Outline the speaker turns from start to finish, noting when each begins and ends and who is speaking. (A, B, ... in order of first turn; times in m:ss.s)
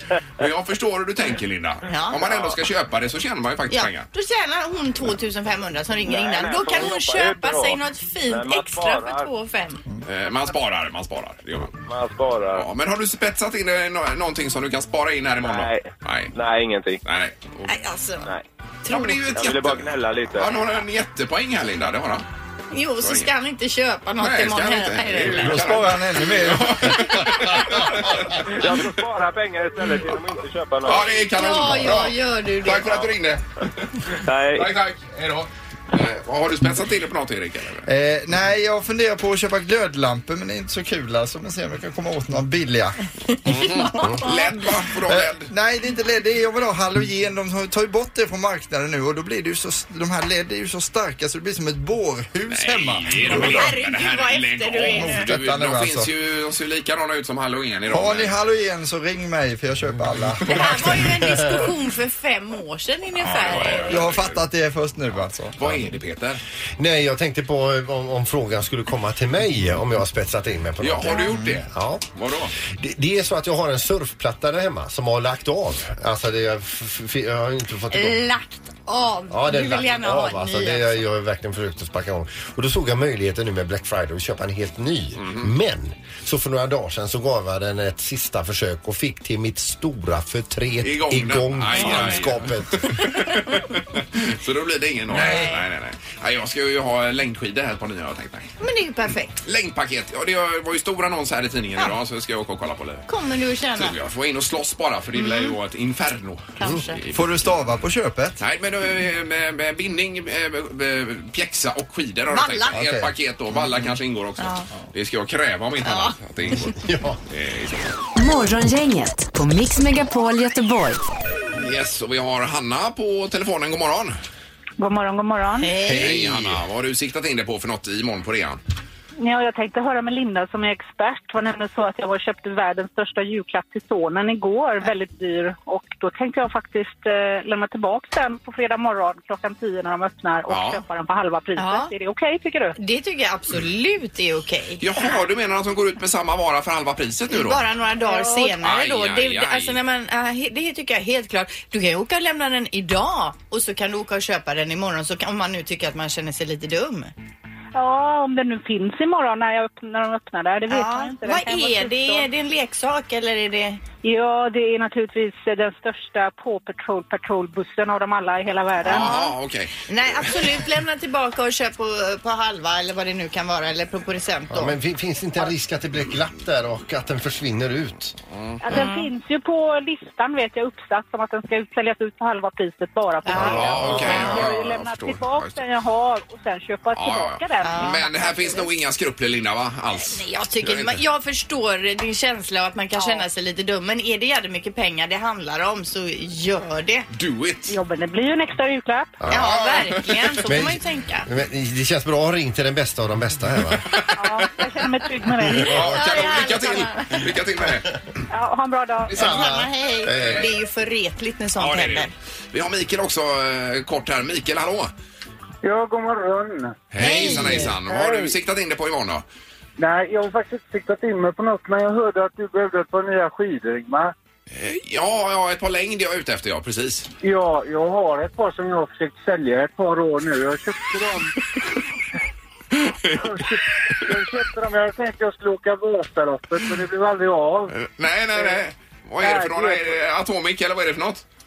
0:00.4-0:04.1 A
0:01.9-0:02.5 B
0:03.7-0:09.8 B
0:06.0-0:09.3 C
0:10.0-0:11.8 A
0:11.8-0:12.6 C
0:12.5-0:16.3 A
0:15.4-0:17.0 C
0:17.0-0:17.7 A
0:17.6-0:18.3 B
0:18.8-0:19.2 B
0:18.8-0:22.2 A
0:19.3-0:20.5 C
0:22.7-0:25.7 B
0:23.0-0:23.3 A
0:24.2-0:28.8 A
0:25.3-0:27.3 D
0:28.4-0:31.2 C
0:30.8-0:37.9 A
0:31.3-0:33.0 B
0:34.2-0:34.7 C
0:37.9-0:44.2 D
0:43.5-0:45.5 A
0:43.7-0:44.5 B
0:45.1-0:53.7 D
0:52.5-0:58.4 A
0:53.3-0:55.2 B
0:54.8-0:56.1 D
0:57.9-1:01.0 D
1:00.5-1:01.0 A
1:00.5-1:04.0 B
1:01.1-1:01.7 E
1:03.2-1:04.4 A
1:03.8-1:05.8 D
1:05.6-1:06.4 A
1:06.8-1:12.0 E
1:10.8-1:12.5 A
1:12.6-1:18.2 E
1:17.9-1:21.0 B
1:19.3-1:32.9 E
1:25.2-1:25.5 A
1:30.8-1:38.6 A
1:31.8-1:32.2 B
1:35.1-1:35.6 B
1:38.6-1:39.4 B
1:39.4-1:43.1 A
1:43.1-1:44.0 B
1:43.8-1:47.4 A
1:45.1-1:45.5 B
1:46.6-1:47.0 B
1:47.1-1:48.4 D
1:48.4-1:56.8 A
1:52.3-1:52.8 B
1:52.7-1:53.1 D
1:54.4-1:54.7 B
1:55.8-1:56.2 B
1:56.7-1:57.2 E
1:57.3-1:57.9 A
1:58.2-2:01.0 F
2:01.5-2:04.2 A
2:04.8-2:05.8 G
2:05.6-2:06.3 B
2:05.9-2:08.6 A
2:06.0-2:06.3 E
2:09.2-2:22.8 G
2:20.5-2:20.8 A
2:21.6-2:21.9 B
2:22.8-2:24.9 B
2:24.8-2:27.6 A
2:27.3-2:37.1 B
2:28.0-2:28.5 G
2:28.6-2:29.8 A
2:37.7-2:42.3 G
2:40.7-2:43.8 B
2:44.0-2:49.1 G
2:48.8-2:50.3 A
2:48.8-2:49.3 B
2:49.9-2:54.7 B
2:54.5-2:58.2 E
2:58.3-2:58.6 A
2:58.6-3:08.6 G
2:58.7-2:59.1 B
3:03.2-3:04.4 B
3:03.3-3:05.6 A
3:03.3-3:04.3 E
3:06.9-3:11.0 A
3:07.6-3:08.6 B
3:10.0-3:17.0 B
3:12.9-3:13.2 G
3:17.1-3:17.8 A
3:17.7-3:19.1 G
3:19.2-3:19.5 E
3:19.2-3:20.4 A
3:19.3-3:21.3 B
3:20.4-3:23.9 E
3:23.9-3:24.5 A
3:24.2-3:26.0 G
3:25.5-3:27.9 A
3:25.6-3:27.2 B
3:28.3-3:29.4 G
3:29.1-3:30.5 E
3:29.2-3:32.1 B
3:30.1-3:30.5 A
3:31.6-3:34.9 A
3:35.6-3:38.4 H
3:36.9-3:39.2 A
3:37.0-3:37.8 B
3:39.8-3:44.1 H
3:44.5-3:47.1 A
3:47.2-3:51.3 H
3:52.8-3:53.2 A
3:53.1-3:57.7 H
3:57.7-4:01.2 A
3:58.3-3:58.6 H
3:59.2-3:59.9 H